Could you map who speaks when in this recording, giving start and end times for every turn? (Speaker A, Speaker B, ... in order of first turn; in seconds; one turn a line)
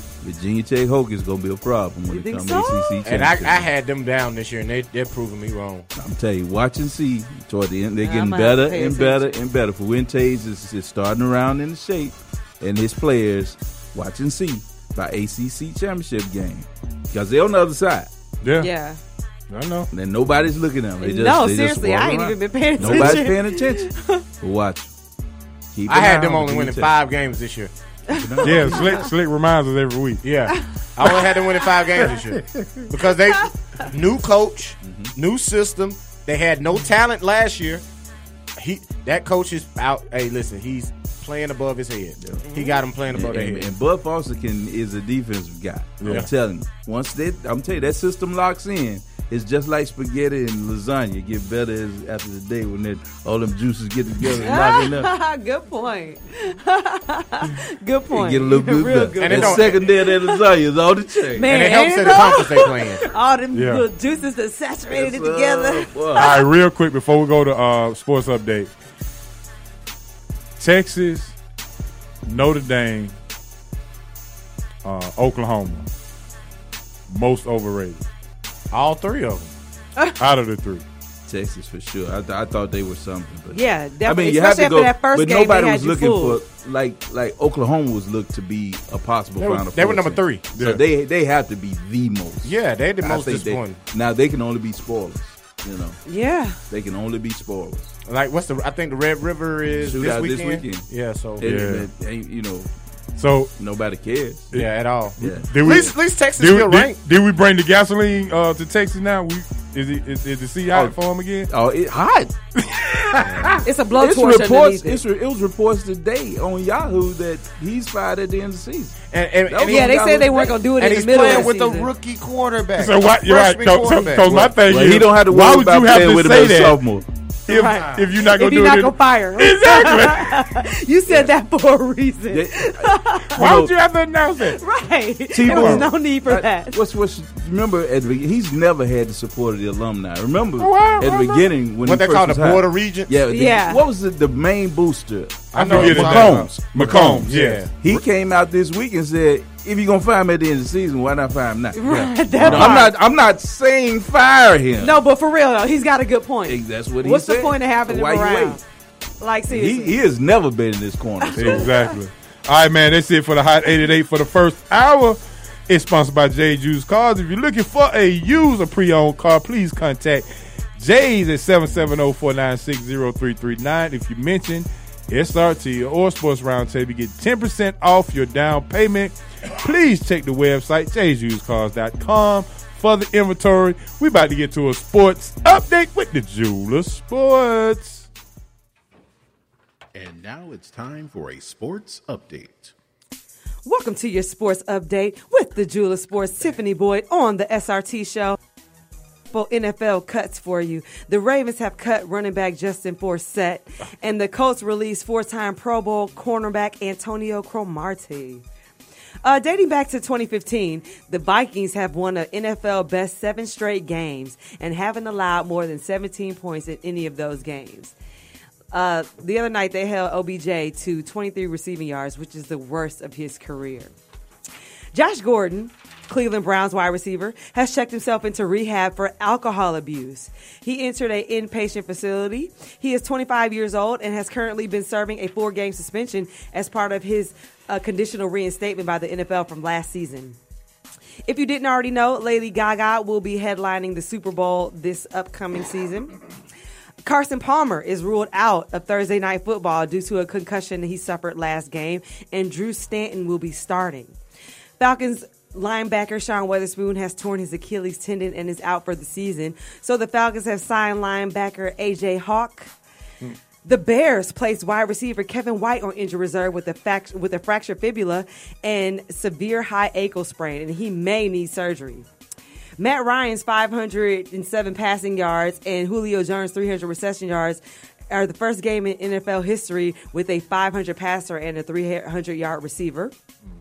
Speaker A: 0.2-3.7
Speaker B: 2.1-3.0
Speaker C: 3.0-5.9
Speaker A: 6.0-18.1
Speaker B: 8.0-9.3
Speaker D: 18.4-18.7
Speaker B: 18.6-19.0
Speaker D: 19.5-19.9
Speaker A: 19.9-24.9
Speaker B: 21.0-24.2
Speaker D: 22.8-23.1
Speaker A: 25.7-26.9
Speaker C: 25.9-27.7
Speaker B: 28.1-29.0
Speaker A: 28.1-29.0
Speaker D: 28.4-30.2
Speaker C: 30.2-37.8
Speaker B: 30.5-31.2
Speaker A: 34.8-35.1
Speaker C: 38.6-43.7
Speaker B: 42.5-42.8
Speaker A: 43.1-55.1
Speaker D: 46.0-46.3
Speaker B: 54.4-60.4
Speaker A: 58.1-61.6
Speaker C: 59.2-59.8
Speaker B: 61.4-66.4
Speaker C: 61.5-63.0
Speaker D: 63.5-63.8
Speaker A: 64.9-66.3
Speaker D: 66.2-68.7
Speaker D: 70.6-71.3
Speaker D: 72.3-73.2
Speaker D: 74.8-75.9
Speaker D: 77.1-78.0
Speaker C: 78.7-79.5
Speaker D: 80.2-80.8
Speaker A: 81.3-96.0
Speaker B: 83.5-86.4
Speaker C: 89.4-90.5
Speaker C: 92.4-93.8
Speaker B: 96.1-96.6
Speaker A: 96.7-97.9
Speaker C: 98.1-101.4
Speaker A: 99.8-100.9
Speaker A: 101.4-102.7
Speaker D: 101.4-101.9
Speaker D: 103.2-103.5
Speaker A: 103.6-104.5
Speaker C: 104.5-107.0
Speaker D: 105.2-111.5
Speaker A: 105.2-105.8
Speaker A: 111.5-112.4
Speaker D: 112.7-113.5
Speaker A: 113.2-120.5
Speaker B: 113.6-115.0
Speaker C: 119.1-124.5
Speaker B: 119.6-121.9
Speaker D: 122.8-126.8
Speaker A: 124.5-127.0
Speaker D: 127.5-130.4
Speaker B: 127.5-133.5
Speaker A: 132.3-133.7
Speaker D: 133.4-134.6
Speaker B: 134.4-136.8
Speaker A: 135.3-155.0
Speaker D: 135.5-135.9
Speaker D: 140.7-141.2
Speaker C: 141.8-143.2
Speaker B: 143.3-143.8
Speaker C: 145.5-147.7
Speaker D: 145.6-147.7
Speaker B: 151.7-152.9
Speaker D: 152.4-152.8
Speaker B: 154.8-158.6
Speaker A: 156.4-158.6
Speaker B: 159.2-160.0
Speaker A: 159.5-161.7
Speaker B: 161.2-161.9
Speaker D: 161.4-188.1
Speaker E: 189.9-192.7
Speaker B: 193.7-198.4
Speaker B: 199.3-208.4
Speaker B: 209.2-217.9
Speaker B: 218.7-223.9
Speaker B: 224.9-240.4
Speaker B: 241.3-246.1
Speaker B: 247.0-254.2
Speaker B: 254.8-262.7
Speaker B: 263.6-272.1
Speaker B: 272.8-283.1